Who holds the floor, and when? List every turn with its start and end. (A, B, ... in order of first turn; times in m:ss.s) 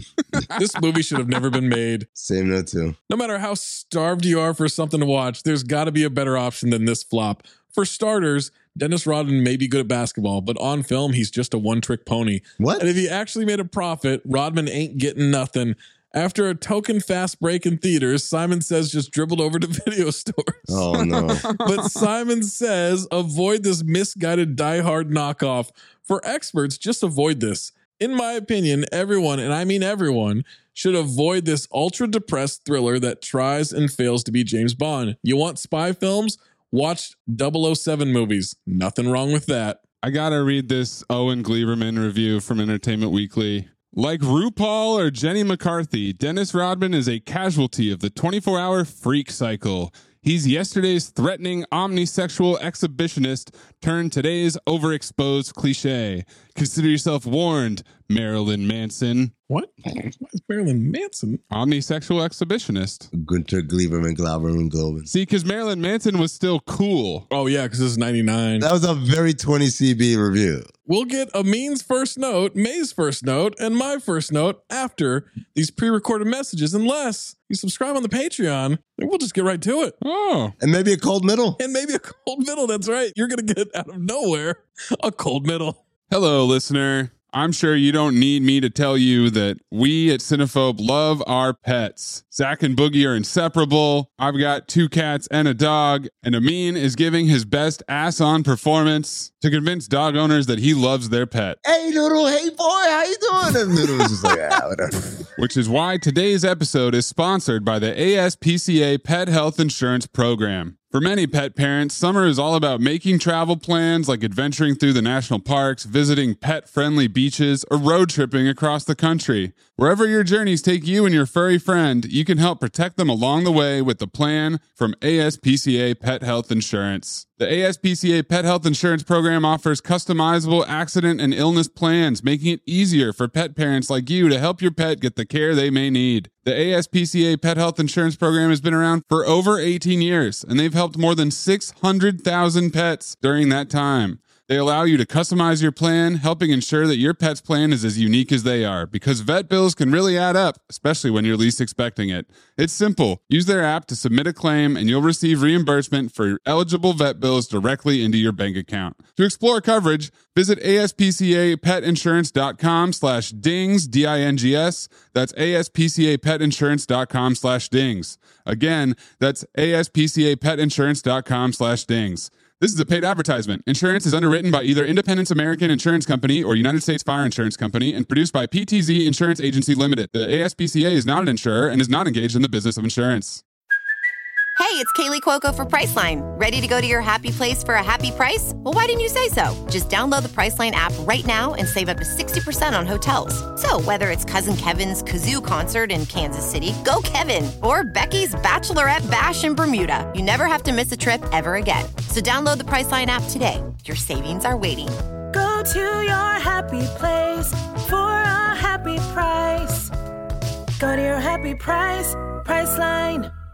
0:00.6-0:02.1 A
0:02.2-0:03.0 B
0:03.1-0:20.8 A
0:12.6-0:12.9 B
0:20.7-0:21.4 B
0:21.0-0:22.0 C
0:21.6-0:39.8 A
0:40.0-0:59.3 C
0:59.5-1:01.4 A
1:01.5-1:03.1 C
1:03.1-1:05.1 B
1:05.1-1:07.2 C
1:07.3-1:08.7 A
1:08.6-1:10.7 B
1:10.9-1:20.0 A
1:20.0-1:20.5 C
1:20.6-1:21.6 B
1:21.6-1:25.8 A
1:26.1-1:41.6 C
1:41.6-1:45.0 B
1:45.4-3:03.4 C
3:04.6-3:25.0 D
3:25.3-3:29.9 E
3:30.8-3:33.3 E